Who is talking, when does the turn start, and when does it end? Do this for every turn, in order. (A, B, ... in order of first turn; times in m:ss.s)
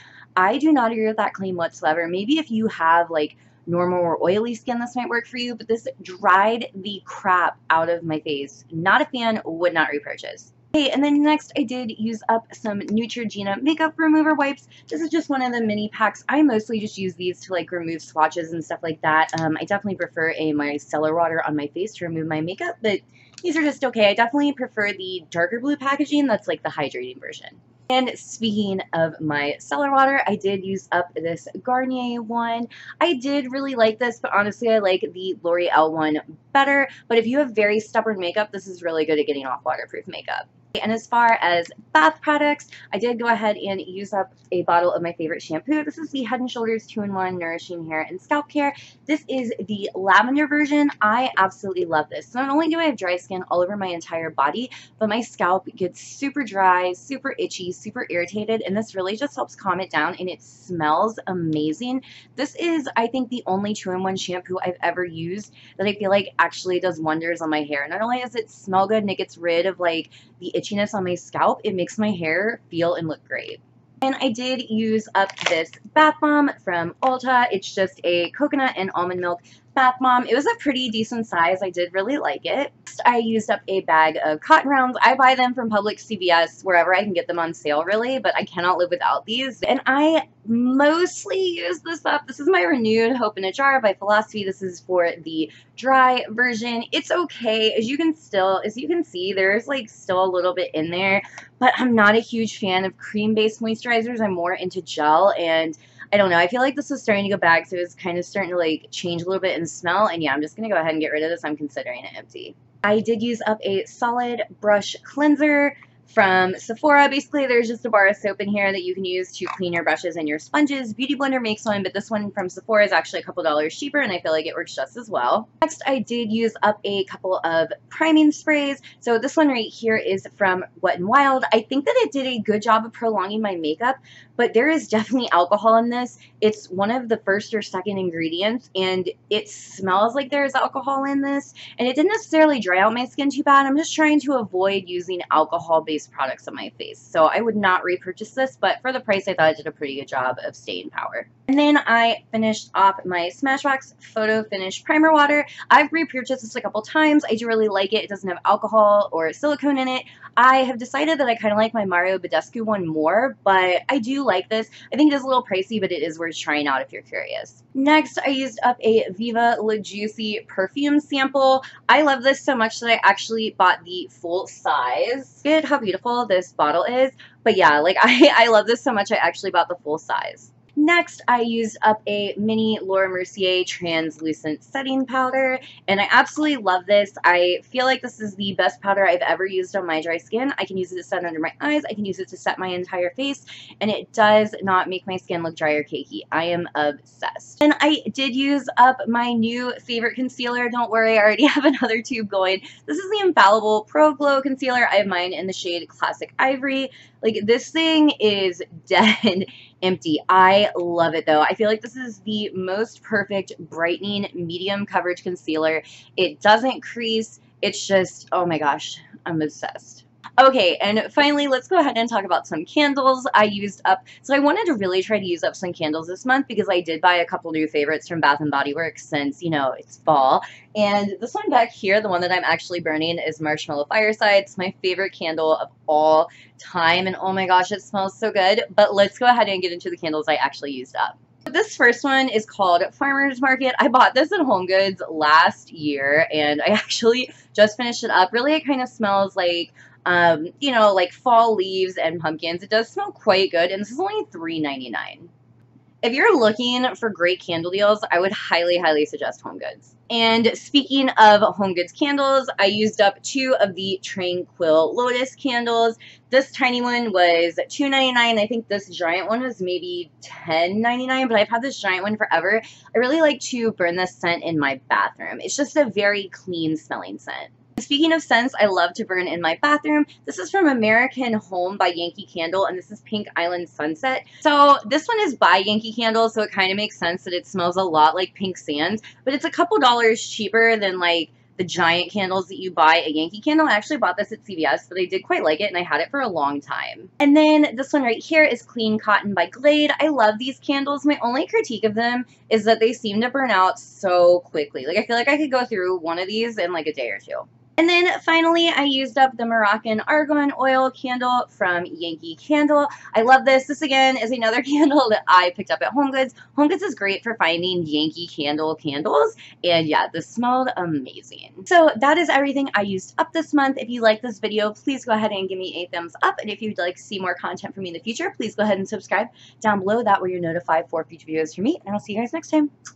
0:00.4-4:15.3 A
4:16.0-5:32.7 A